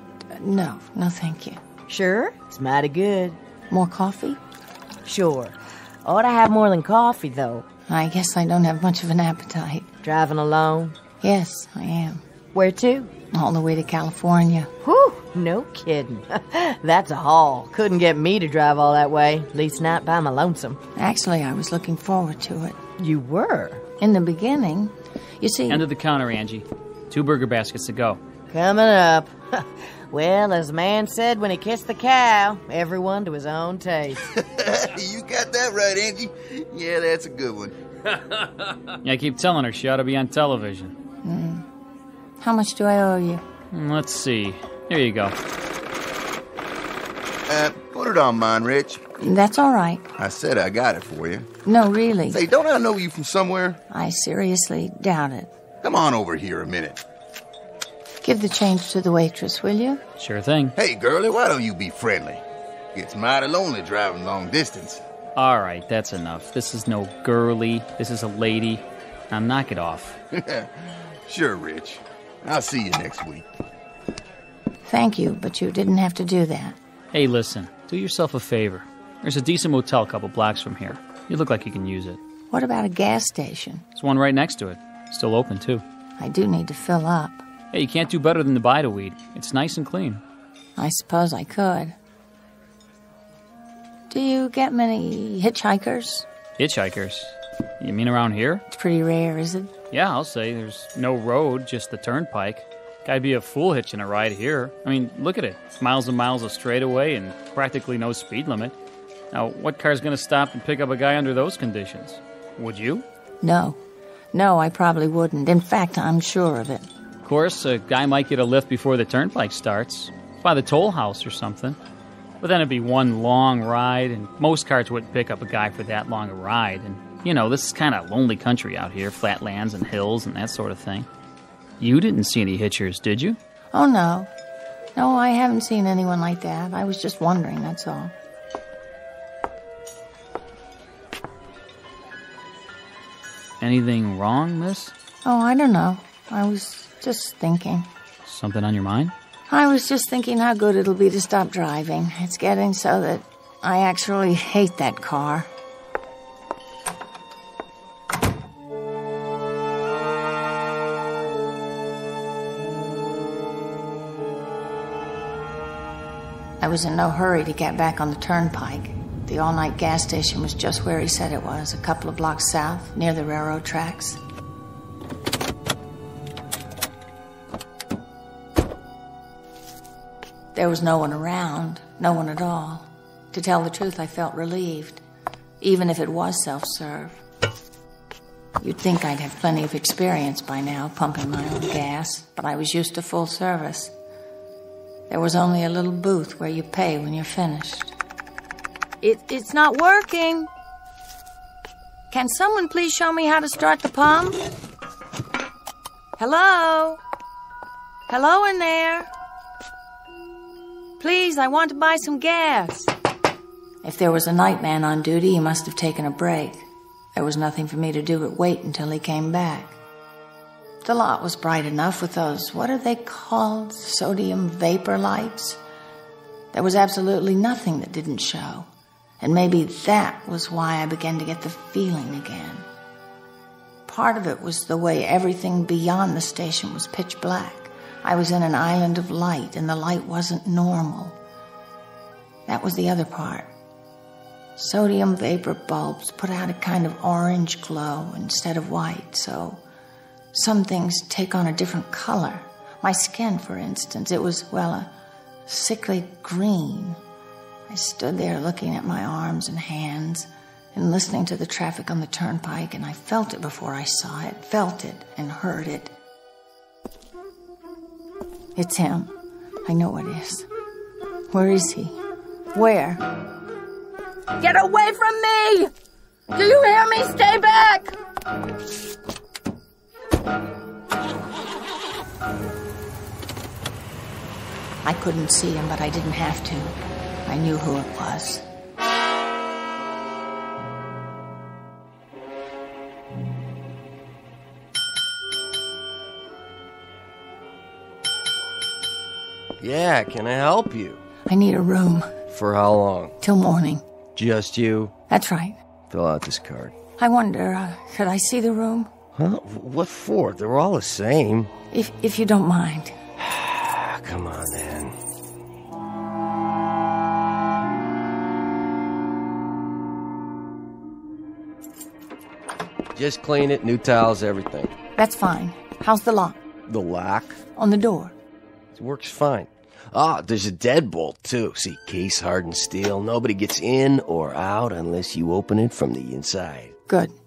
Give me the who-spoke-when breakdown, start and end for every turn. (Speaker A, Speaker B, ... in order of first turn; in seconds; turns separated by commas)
Speaker A: 0.3-1.6, Speaker B: 1.9-3.4, Speaker A: 3.7-4.4, Speaker B: 5.0-7.7, Speaker A: 7.9-9.9, Speaker B: 10.0-10.9, Speaker A: 11.2-12.2, Speaker B: 12.5-13.1, Speaker A: 13.3-14.7, Speaker B: 14.8-20.8, Speaker A: 21.0-22.8, Speaker B: 23.0-23.8, Speaker A: 24.0-25.8, Speaker C: 25.7-28.2, Speaker B: 28.5-34.2, Speaker D: 34.4-37.8, Speaker C: 39.0-41.0, Speaker A: 41.2-41.6, Speaker A: 42.4-43.4, Speaker C: 43.7-45.4, Speaker D: 47.5-49.0, Speaker A: 49.2-50.1, Speaker D: 50.2-51.5, Speaker A: 51.7-52.4, Speaker D: 52.3-53.8, Speaker A: 53.9-55.5, Speaker D: 55.8-57.0, Speaker A: 58.2-60.0, Speaker C: 60.2-60.8, Speaker D: 60.8-62.4, Speaker D: 63.0-65.0, Speaker C: 65.4-70.2, Speaker D: 70.3-70.7, Speaker D: 71.3-73.5, Speaker A: 74.9-76.8, Speaker C: 77.1-82.2, Speaker A: 82.5-83.8, Speaker C: 84.0-85.8, Speaker A: 86.2-87.4, Speaker C: 87.7-90.2, Speaker A: 90.8-92.0, Speaker A: 94.1-96.3, Speaker C: 96.6-98.6, Speaker A: 98.7-99.7, Speaker C: 99.9-108.8, Speaker C: 109.3-113.0, Speaker A: 113.4-113.8, Speaker A: 114.3-116.9, Speaker C: 117.2-121.8, Speaker C: 122.4-131.1, Speaker C: 131.8-133.4, Speaker A: 133.7-134.3, Speaker A: 134.9-138.1, Speaker C: 143.6-144.9, Speaker A: 145.2-147.9, Speaker C: 148.3-149.1, Speaker A: 149.5-155.5, Speaker A: 166.6-174.2, Speaker A: 180.5-185.0, Speaker A: 185.6-187.2, Speaker A: 188.6-193.9, Speaker A: 195.1-197.9, Speaker A: 199.0-200.5, Speaker A: 202.1-204.4, Speaker A: 206.2-207.0, Speaker A: 208.1-209.1, Speaker A: 211.0-212.9, Speaker A: 213.8-219.8, Speaker A: 220.8-225.6, Speaker A: 226.5-228.7, Speaker A: 229.2-232.7, Speaker A: 233.9-241.2, Speaker A: 242.5-243.5, Speaker A: 244.6-249.6, Speaker A: 250.3-254.9, Speaker A: 255.5-257.0, Speaker A: 257.7-265.9, Speaker A: 268.6-269.1, Speaker A: 269.6-270.5, Speaker A: 271.3-272.0, Speaker A: 272.5-273.0, Speaker A: 274.4-275.7, Speaker A: 276.3-277.9, Speaker A: 284.8-286.8, Speaker A: 287.3-288.4, Speaker E: 299.6-301.0, Speaker A: 301.3-302.1, Speaker E: 302.3-303.2, Speaker A: 303.2-303.8, Speaker E: 304.2-304.9, Speaker A: 305.1-305.6, Speaker E: 305.9-306.8, Speaker A: 307.0-308.9, Speaker E: 309.1-311.5, Speaker A: 311.7-313.0, Speaker E: 313.2-314.9, Speaker E: 322.9-324.8, Speaker A: 325.0-326.4, Speaker E: 326.7-327.4, Speaker A: 327.6-328.1, Speaker E: 328.8-336.8, Speaker A: 336.9-337.1